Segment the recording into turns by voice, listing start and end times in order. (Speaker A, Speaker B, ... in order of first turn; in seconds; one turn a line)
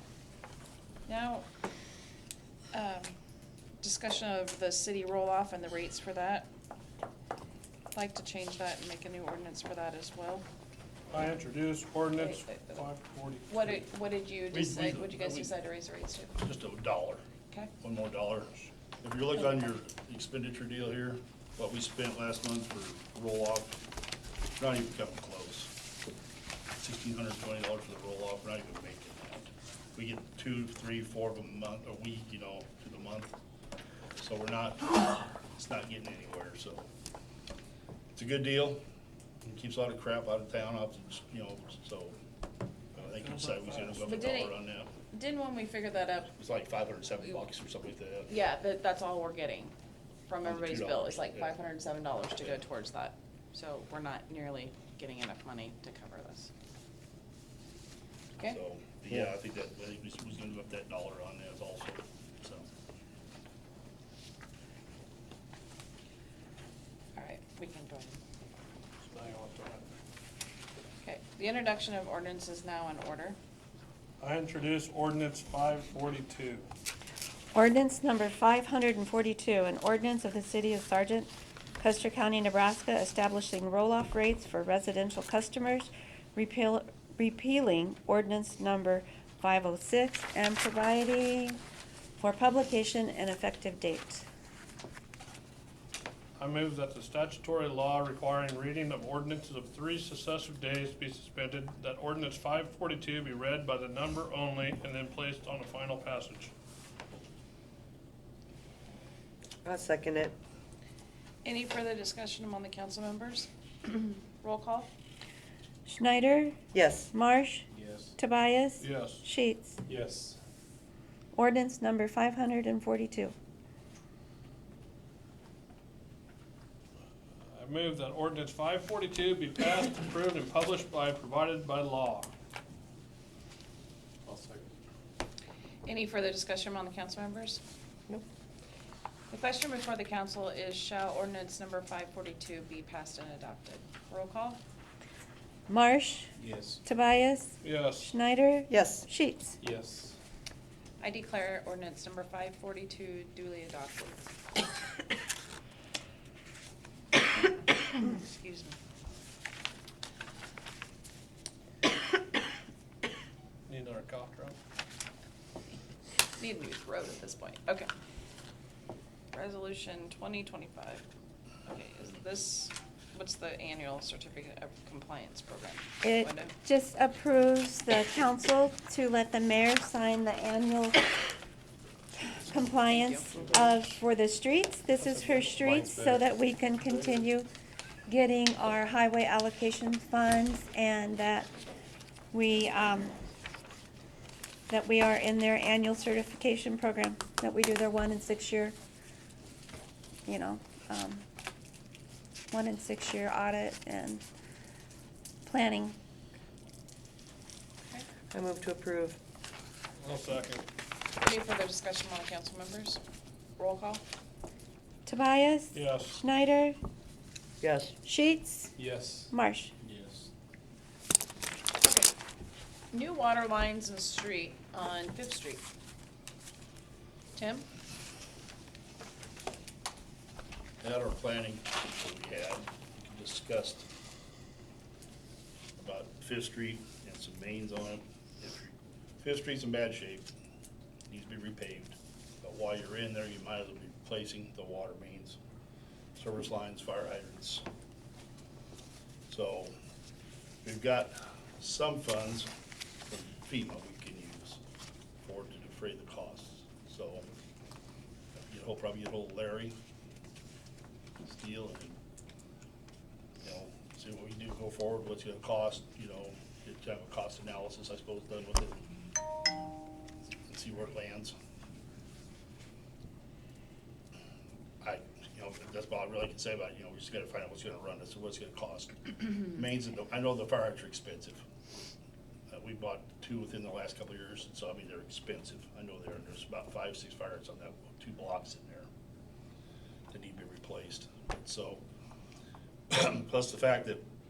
Speaker A: 1.1-1.4
Speaker A: 2.7-3.1
Speaker A: 3.8-6.5
Speaker A: 7.9-10.5
Speaker B: 11.1-13.8
Speaker A: 12.2-12.9
Speaker A: 13.5-16.3
Speaker C: 14.5-15.5
Speaker C: 16.4-17.2
Speaker C: 17.8-23.8
Speaker C: 24.6-25.7
Speaker C: 26.8-33.3
Speaker C: 34.2-36.8
Speaker C: 38.1-38.8
Speaker C: 39.4-42.2
Speaker C: 42.9-44.9
Speaker B: 43.0-44.1
Speaker A: 44.0-44.6
Speaker A: 45.1-46.3
Speaker C: 46.3-48.3
Speaker A: 48.3-49.7
Speaker A: 50.3-56.5
Speaker C: 50.4-51.5
Speaker C: 58.4-62.7
Speaker A: 67.1-68.2
Speaker B: 69.0-69.9
Speaker A: 71.0-73.4
Speaker B: 74.2-76.7
Speaker D: 77.5-91.6
Speaker D: 92.2-94.3
Speaker B: 96.4-106.5
Speaker E: 109.6-110.3
Speaker A: 111.4-114.9
Speaker D: 115.8-119.8
Speaker E: 116.7-117.1
Speaker F: 117.7-118.1
Speaker B: 118.8-119.2
Speaker F: 119.8-120.4
Speaker D: 121.3-123.3
Speaker B: 127.5-132.3
Speaker F: 134.2-134.7
Speaker A: 135.8-137.6
Speaker A: 139.3-144.6
Speaker D: 145.7-146.3
Speaker F: 146.4-146.8
Speaker D: 146.8-149.6
Speaker B: 147.6-148.1
Speaker E: 148.7-149.1
Speaker F: 149.6-150.2
Speaker A: 151.0-154.3
Speaker A: 157.9-158.8
Speaker B: 163.7-164.6
Speaker A: 166.4-167.9
Speaker A: 169.3-171.1
Speaker A: 171.7-176.5
Speaker D: 176.0-181.2
Speaker D: 182.2-187.5
Speaker A: 182.9-183.3
Speaker F: 183.4-183.7
Speaker F: 185.0-186.2
Speaker F: 186.9-187.1
Speaker D: 188.1-191.5
Speaker D: 192.3-193.2
Speaker D: 194.7-198.7
Speaker D: 200.2-201.2
Speaker D: 202.5-204.2
Speaker D: 205.4-206.0
Speaker E: 208.3-209.2
Speaker B: 210.0-210.6
Speaker A: 211.2-213.0
Speaker A: 213.6-214.0
Speaker D: 215.1-216.8
Speaker B: 215.7-216.2
Speaker E: 217.6-217.9
Speaker D: 218.0-218.7
Speaker F: 218.8-220.3
Speaker D: 219.3-219.7
Speaker A: 221.8-222.1
Speaker A: 222.9-225.6
Speaker A: 227.3-227.7
Speaker C: 230.8-233.9
Speaker C: 235.8-240.3
Speaker C: 241.1-245.4
Speaker C: 246.2-247.6
Speaker C: 249.3-249.7
Speaker C: 250.6-252.5
Speaker C: 253.1-254.6
Speaker C: 255.2-257.3
Speaker C: 258.4-259.7
Speaker C: 261.2-262.0
Speaker C: 263.4-268.8
Speaker C: 270.5-271.3
Speaker C: 274.8-281.4
Speaker C: 282.5-288.9
Speaker C: 290.1-291.8
Speaker C: 292.9-294.0